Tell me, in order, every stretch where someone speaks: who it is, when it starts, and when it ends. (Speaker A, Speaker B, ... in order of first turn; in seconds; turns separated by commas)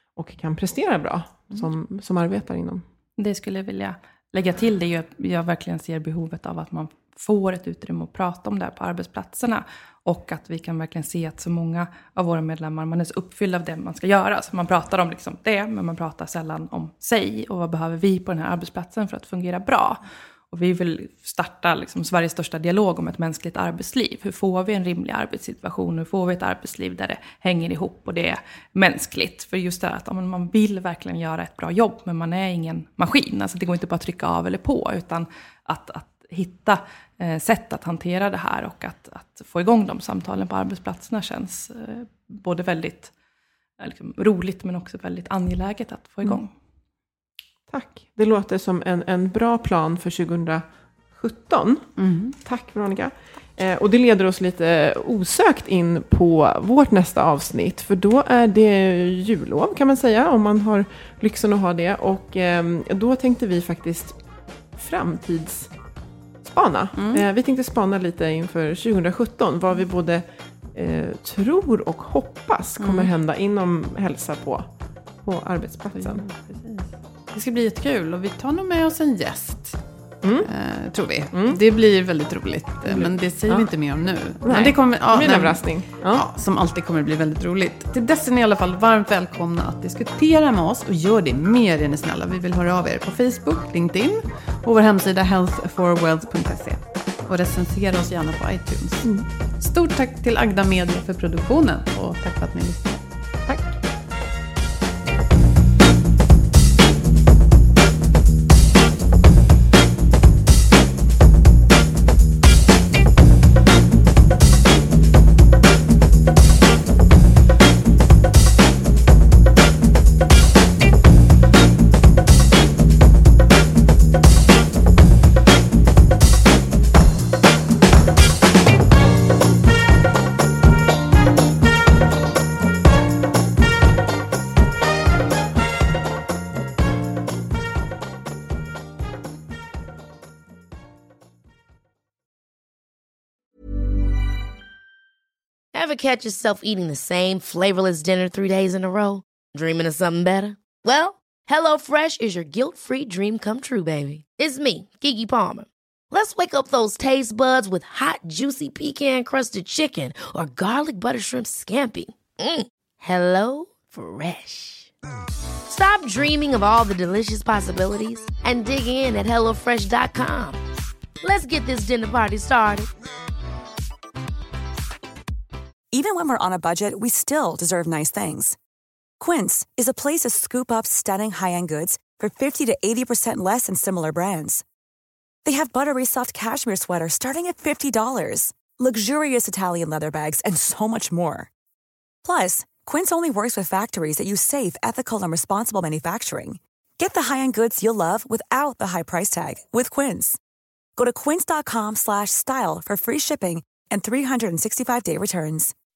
Speaker A: 0.1-2.8, Speaker B: 3.2-43.1, Speaker B: 43.8-46.5, Speaker A: 47.7-64.2, Speaker C: 52.0-52.4, Speaker A: 64.7-65.7, Speaker A: 66.4-74.7, Speaker C: 67.0-67.2, Speaker C: 72.8-73.1, Speaker A: 75.2-76.2, Speaker C: 75.9-79.8, Speaker A: 80.2-80.5, Speaker C: 80.4-103.0, Speaker A: 81.3-81.6, Speaker A: 82.8-83.7, Speaker A: 84.4-86.2, Speaker D: 145.7-164.9, Speaker D: 165.7-170.6, Speaker D: 171.2-172.9, Speaker E: 175.9-178.6, Speaker E: 179.2-184.6, Speaker E: 185.4-191.5, Speaker E: 192.2-200.4, Speaker E: 201.0-205.7